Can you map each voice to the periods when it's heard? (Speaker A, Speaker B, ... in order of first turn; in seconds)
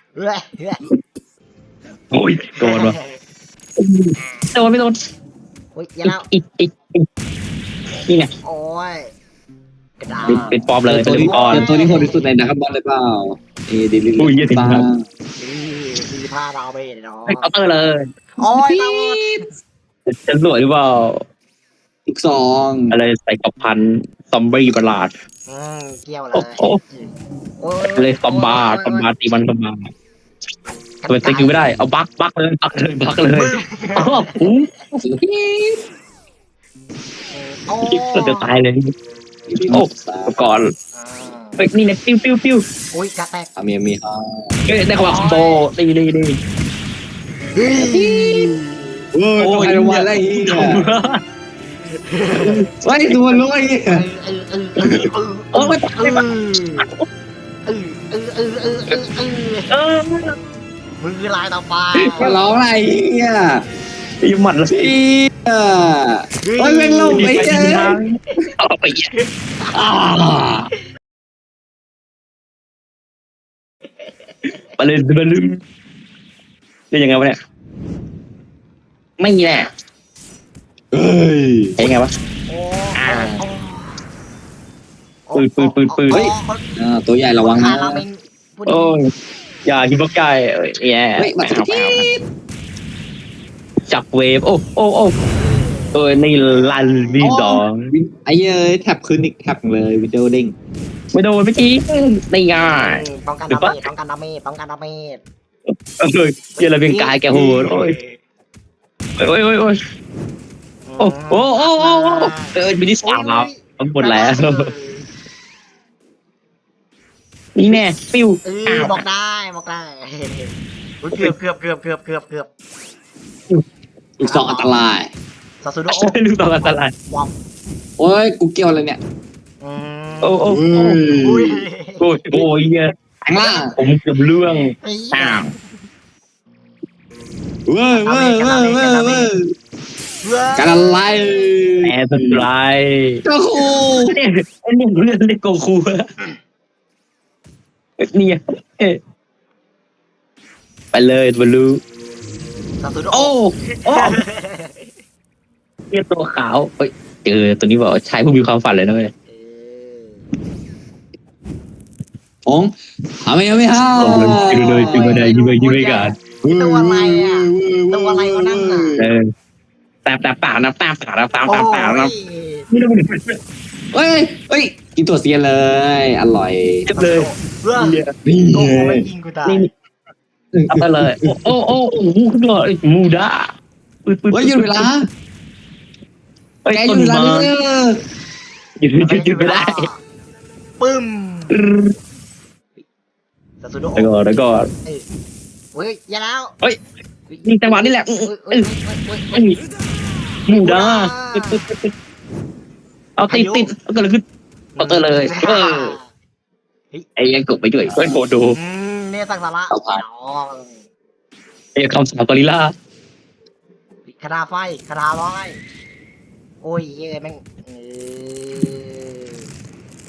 Speaker A: 0.1-0.8, 2.6-3.2, 4.2-4.5, 5.7-6.3, 8.4-9.1, 10.0-10.5, 11.2-12.3, 15.4-17.5, 18.4-19.2, 25.5-29.1, 31.0-31.8, 33.3-34.5, 37.3-38.5, 40.9-41.7, 42.9-43.5, 45.0-45.7, 47.5-49.0, 52.0-52.7, 53.9-56.9, 57.7-59.7, 61.0-62.4, 66.4-68.5, 82.5-84.0, 85.3-86.6, 87.4-89.0, 95.2-97.3, 102.5-105.2, 106.6-108.2, 110.9-115.1, 118.5-122.5, 124.2-124.9, 125.6-127.3, 129.6-130.5, 131.2-132.1, 133.4-135.6, 137.9-139.3, 140.2-141.8, 152.8-154.9, 159.3-160.3, 164.0-169.0, 171.5-172.7, 176.9-179.7, 189.0-190.0, 190.8-191.6, 193.6-195.1, 195.7-196.6, 197.3-199.5, 200.5-201.6, 203.3-203.7, 204.8-206.1, 208.6-210.8, 214.1-215.6, 216.6-219.5
Speaker B: 2.1-3.0, 3.8-5.0, 6.0-7.0, 10.3-11.7, 14.2-14.8, 17.3-18.1, 20.1-21.2, 22.9-25.1, 26.3-26.8, 27.9-29.9, 31.1-35.0, 37.9-38.9, 39.7-40.7, 41.6-42.6, 44.7-46.4, 49.4-51.2, 52.4-53.1, 55.5-56.2, 56.8-57.0, 59.7-60.4, 62.0-62.4, 64.2-65.0, 67.1-69.1, 74.8-75.6, 76.9-77.4, 79.2-79.7, 81.8-82.1, 83.0-83.4, 85.3-86.3, 88.7-89.0, 89.7-92.0, 93.9-95.2, 95.9-97.9, 101.1-103.8, 105.7-108.0, 109.2-109.8, 111.0-114.7, 117.5-119.0, 125.9-126.9, 130.2-131.0, 132.0-132.9, 133.6-135.5, 141.8-143.2, 144.1-146.0, 148.0-149.0, 150.9-151.8, 153.1-154.2, 155.9-159.1, 164.0-166.2, 170.1-172.1, 172.7-173.4, 176.9-178.1, 180.7-183.5, 184.1-184.9, 186.7-187.5, 188.8-189.9, 191.5-191.9, 194.0-194.7, 197.4-198.7, 200.5-201.9, 203.2-204.2, 204.8-206.0, 207.2-208.6, 211.8-212.7
Speaker C: 10.2-15.1, 18.5-19.4, 22.1-23.0, 35.0-35.8, 39.5-40.4, 43.6-44.6, 47.7-48.5, 49.1-50.8, 52.9-54.0, 62.2-63.6, 64.7-68.0, 69.7-70.7, 80.9-81.8, 86.1-88.0, 91.2-92.2, 97.2-100.5, 124.2-125.1, 128.0-129.0, 130.5-131.6, 133.2-133.7, 137.7-139.5, 140.6-142.5, 143.2-144.2, 163.2-165.2, 166.4-169.1, 173.9-176.9, 178.2-179.1, 180.6-181.6, 184.3-185.1, 186.7-188.0, 207.9-208.2, 209.7-210.0